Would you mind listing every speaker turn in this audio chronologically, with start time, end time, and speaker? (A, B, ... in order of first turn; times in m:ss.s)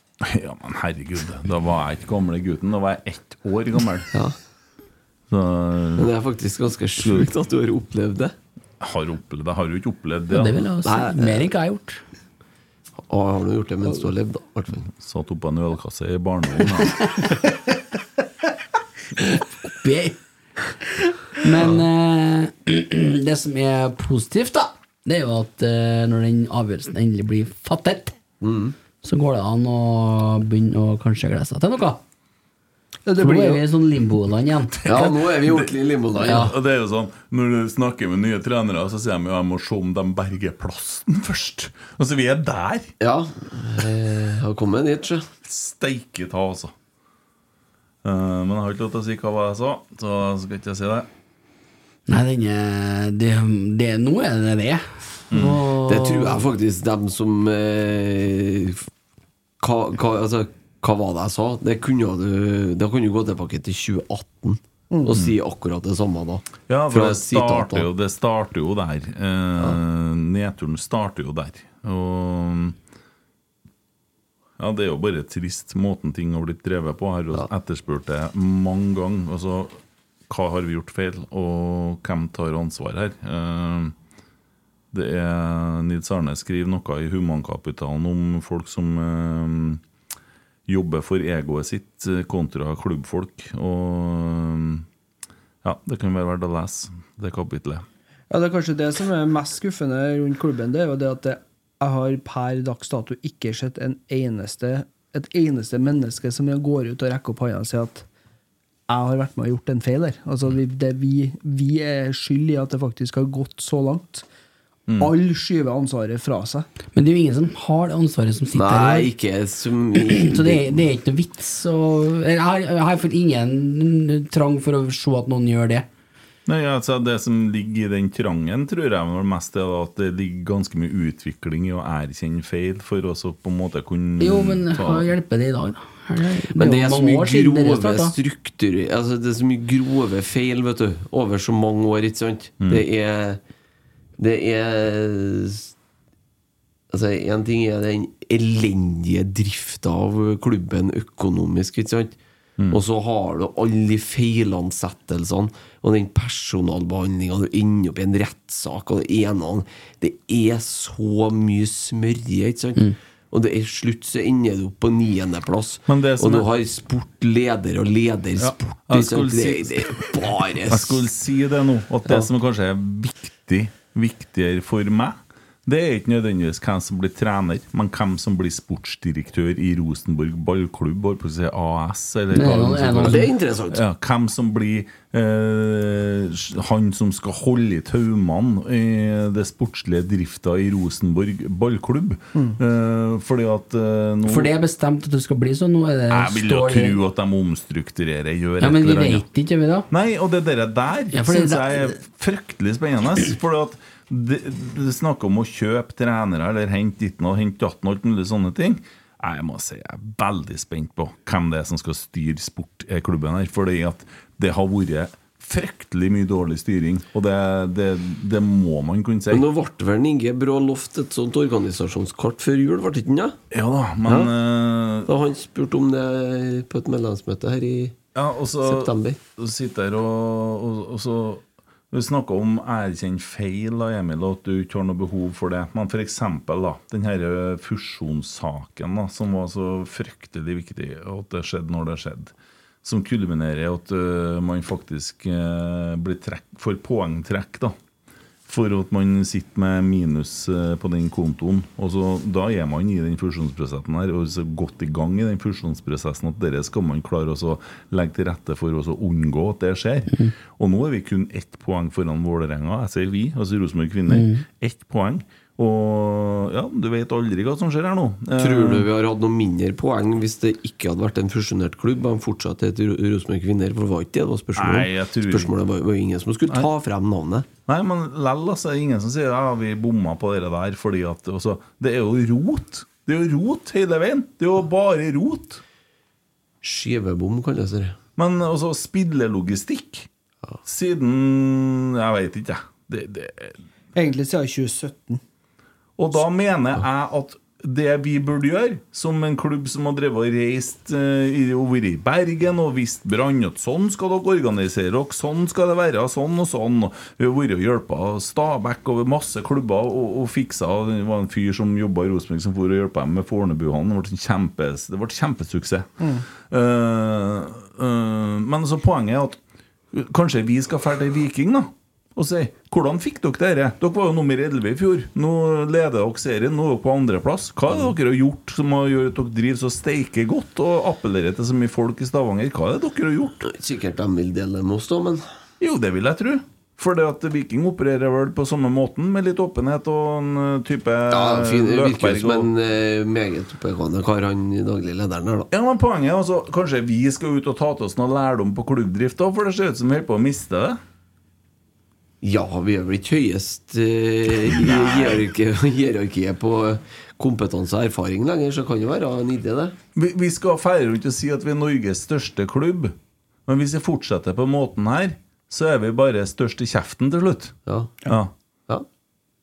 0:00.2-0:04.1 A
0:05.3-0:06.1 A
0:06.0-0:08.3 B
0:07.0-0:07.3 A
0:08.8-0:10.6 A
0:10.3-0:12.0 C
0:10.8-0:11.4 B
0:13.1-0:14.8 B
0:14.9-0:17.1 A
0:19.8-0:20.2 C
0:21.4-0:28.1 C
0:28.4-0:28.7 B
0:29.0-0:32.0 C
0:33.0-0:33.6 D
0:33.2-0:35.1 C
0:34.7-0:35.7 A
0:34.9-0:36.5 B
0:36.2-0:42.9 A
0:36.2-0:36.5 C
0:43.0-0:45.3 B
0:45.4-0:46.7 A
0:48.0-0:51.1 A
0:52.1-0:56.4 C
0:55.3-0:55.6 A
0:55.9-0:58.8 B
0:59.6-1:07.9 B
1:06.7-1:12.8 A
1:14.6-1:23.9 A
1:24.9-1:29.8 A
1:30.7-1:34.8 A
1:35.6-1:37.8 A
1:38.3-1:48.0 D
1:48.9-1:54.2 D
1:54.9-1:55.1 A
1:55.0-1:56.7 D
1:56.9-1:59.1 C
1:58.5-2:00.8 B
2:00.1-2:05.8 C
2:06.4-2:15.1 A
2:14.2-2:18.1 C
2:16.6-2:23.4 B
2:24.2-2:25.7 B
2:26.9-2:32.2 B
2:32.7-2:51.0 B
2:45.9-2:46.5 A
2:48.4-2:49.9 A
2:50.7-3:14.5 A
3:02.3-3:03.2 C
3:03.0-3:03.8 B
3:14.2-3:17.0 C
3:16.1-3:19.2 A
3:18.6-3:19.9 C
3:19.9-3:39.4 A
3:21.1-3:22.0 C
3:39.3-3:43.4 B
3:43.5-3:45.1 A
3:44.0-3:44.3 B
3:45.0-3:48.0 B
3:48.1-4:07.7 A
3:48.6-3:49.2 B
4:08.4-4:28.9 A
4:24.1-4:24.4 C
4:28.4-4:37.5 B
4:34.6-4:35.5 A
4:37.7-4:45.6 A
4:46.6-4:48.0 B
4:48.2-4:50.1 A
4:50.6-4:53.6 A
4:53.9-4:55.2 D
4:56.0-5:15.9 A
5:16.4-5:19.4 A
5:19.9-5:33.4 A
5:33.4-5:35.2 B
5:35.6-5:42.5 A
5:41.1-5:45.5 B
5:45.5-5:50.8 A
5:52.2-5:59.8 B
5:54.6-5:55.2 A
5:59.9-6:02.9 A
6:03.5-6:07.5 A
6:07.6-6:08.0 B
6:08.1-6:08.3 A